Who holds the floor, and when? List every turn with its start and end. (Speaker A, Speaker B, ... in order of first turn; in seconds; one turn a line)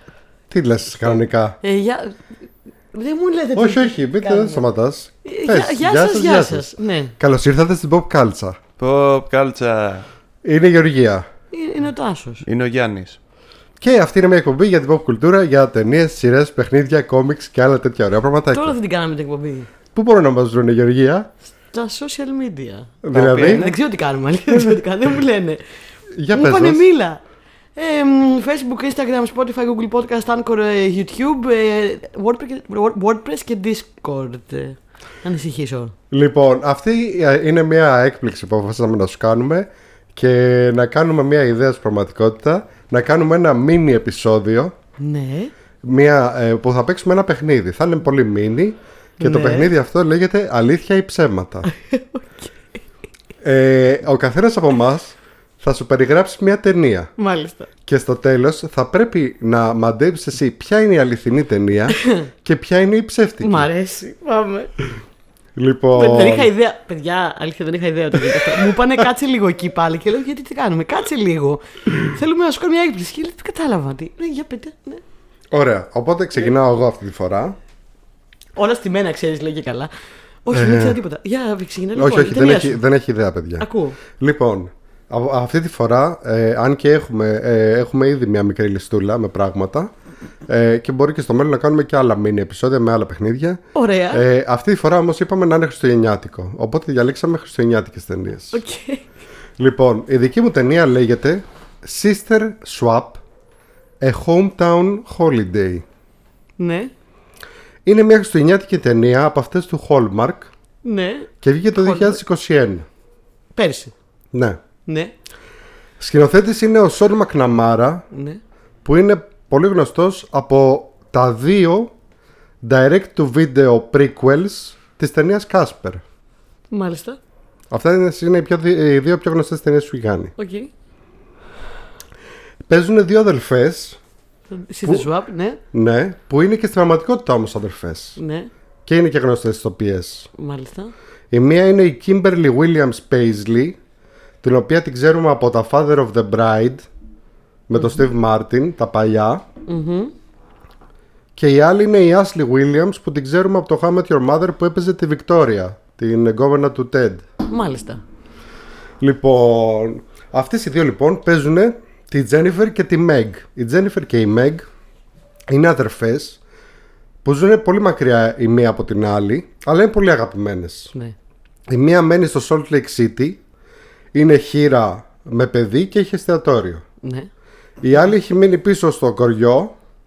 Speaker A: 0.5-1.6
Speaker B: 1.6-2.2
Speaker B: 2.9-4.6
Speaker A: 3.5-8.6
Speaker B: 5.2-7.1
Speaker C: 8.8-10.1
Speaker A: 10.4-11.2
Speaker B: 11.5-12.4
Speaker C: 12.4-13.2
Speaker A: 13.8-18.8
Speaker B: 18.5-19.7
Speaker A: 19.9-21.3
Speaker B: 21.7-25.6
Speaker A: 23.0-23.7
Speaker C: 23.1-23.7
Speaker A: 26.2-26.8
Speaker B: 26.3-27.2
Speaker B: 27.8-35.9
Speaker A: 36.1-44.7
Speaker B: 45.0-45.5
Speaker A: 45.8-51.7
Speaker B: 49.2-49.7
Speaker B: 51.7-52.5
Speaker A: 53.4-57.1
Speaker B: 57.2-57.7
Speaker A: 57.9-63.7
Speaker B: 62.0-62.3
Speaker B: 63.4-64.7
Speaker A: 65.5-66.5
Speaker B: 65.9-75.0
Speaker A: 75.5-77.5
Speaker B: 78.5-79.9
Speaker B: 80.4-82.8
Speaker A: 80.5-81.0
Speaker A: 82.0-89.9
Speaker B: 83.6-84.0
Speaker A: 90.5-93.6
Speaker B: 93.7-94.2
Speaker A: 94.1-98.6
Speaker B: 98.5-99.0
Speaker A: 99.6-103.2
Speaker A: 104.0-105.8
Speaker B: 106.6-106.9
Speaker A: 107.8-110.5
Speaker B: 110.8-112.2
Speaker A: 111.4-112.8
Speaker B: 113.5-113.9
Speaker A: 114.3-114.6
Speaker B: 114.8-115.1
Speaker A: 116.0-118.0
Speaker B: 118.1-118.4
Speaker A: 118.8-121.9
Speaker A: 122.6-126.0
Speaker B: 126.7-127.2
Speaker A: 127.7-130.3
Speaker B: 130.4-130.7
Speaker A: 132.7-134.0
Speaker B: 134.5-135.6
Speaker A: 135.7-138.2
Speaker B: 138.2-138.5
Speaker A: 138.8-140.3
Speaker B: 140.3-140.9
Speaker A: 141.3-143.8
Speaker A: 144.4-146.9
Speaker A: 147.7-149.4
Speaker B: 149.7-150.1
Speaker A: 151.4-157.2
Speaker B: 157.5-158.0
Speaker A: 159.0-164.7
Speaker A: 165.5-166.4
Speaker A: 167.2-170.9
Speaker A: 171.7-173.4
Speaker A: 174.1-176.8
Speaker B: 177.0-177.3
Speaker A: 177.8-179.7